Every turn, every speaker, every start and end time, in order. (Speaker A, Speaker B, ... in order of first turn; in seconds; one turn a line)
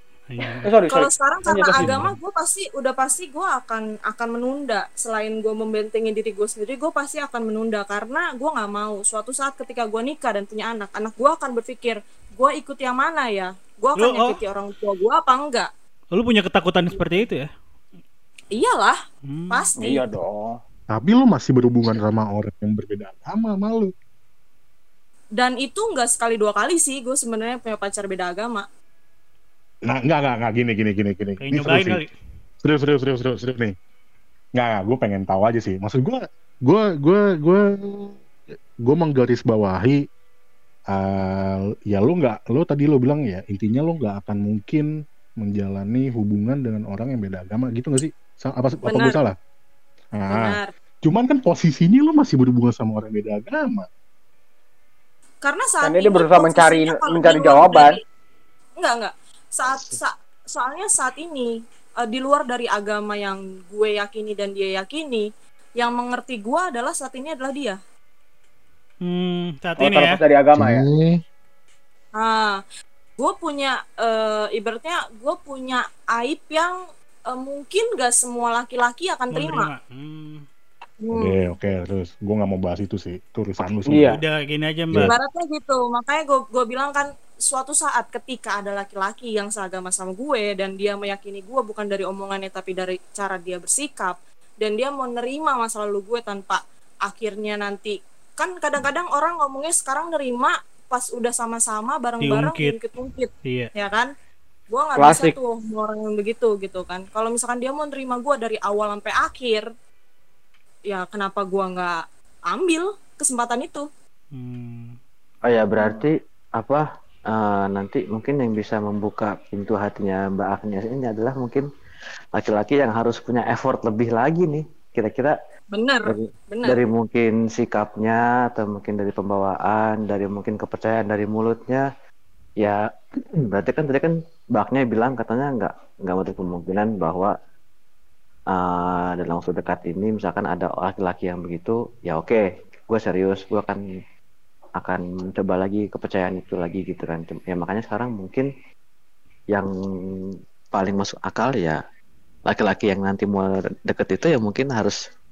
Speaker A: 0.3-0.7
Speaker B: 0.6-1.9
Speaker C: 0.8-15.7
Speaker D: 1.7-2.1
Speaker A: 14.0-14.3
Speaker A: 16.1-17.5
Speaker C: 16.9-17.2
Speaker C: 18.6-19.0
Speaker A: 19.2-19.7
Speaker C: 19.5-20.1
Speaker B: 19.8-20.6
Speaker D: 20.9-23.9
Speaker C: 25.4-28.6
Speaker D: 29.9-32.0
Speaker A: 31.4-32.1
Speaker D: 32.6-33.7
Speaker D: 34.5-40.0
Speaker D: 40.9-44.9
Speaker D: 45.4-49.4
Speaker C: 48.8-49.2
Speaker D: 50.1-53.9
Speaker C: 50.3-50.7
Speaker C: 55.4-58.0
Speaker B: 55.8-58.0
Speaker C: 58.8-61.5
Speaker C: 62.0-67.8
Speaker A: 69.0-70.2
Speaker B: 69.8-70.8
Speaker D: 70.5-71.2
Speaker C: 72.2-72.6
Speaker C: 73.2-76.7
Speaker C: 77.3-79.7
Speaker A: 79.3-80.4
Speaker C: 81.0-81.4
Speaker D: 81.1-84.2
Speaker B: 83.8-84.2
Speaker A: 84.0-85.1
Speaker C: 85.0-104.1
Speaker A: 102.2-102.8
Speaker A: 103.4-103.7
Speaker C: 104.7-109.7
Speaker B: 105.0-105.3
Speaker C: 110.9-112.0
Speaker C: 112.5-113.8
Speaker A: 114.3-115.0
Speaker E: 115.4-121.7
Speaker E: 122.3-125.3
Speaker C: 125.7-126.8
Speaker E: 126.1-131.8
Speaker E: 133.4-137.3
Speaker E: 138.5-143.8
Speaker E: 144.8-148.5
Speaker E: 149.5-151.8
Speaker E: 152.5-155.0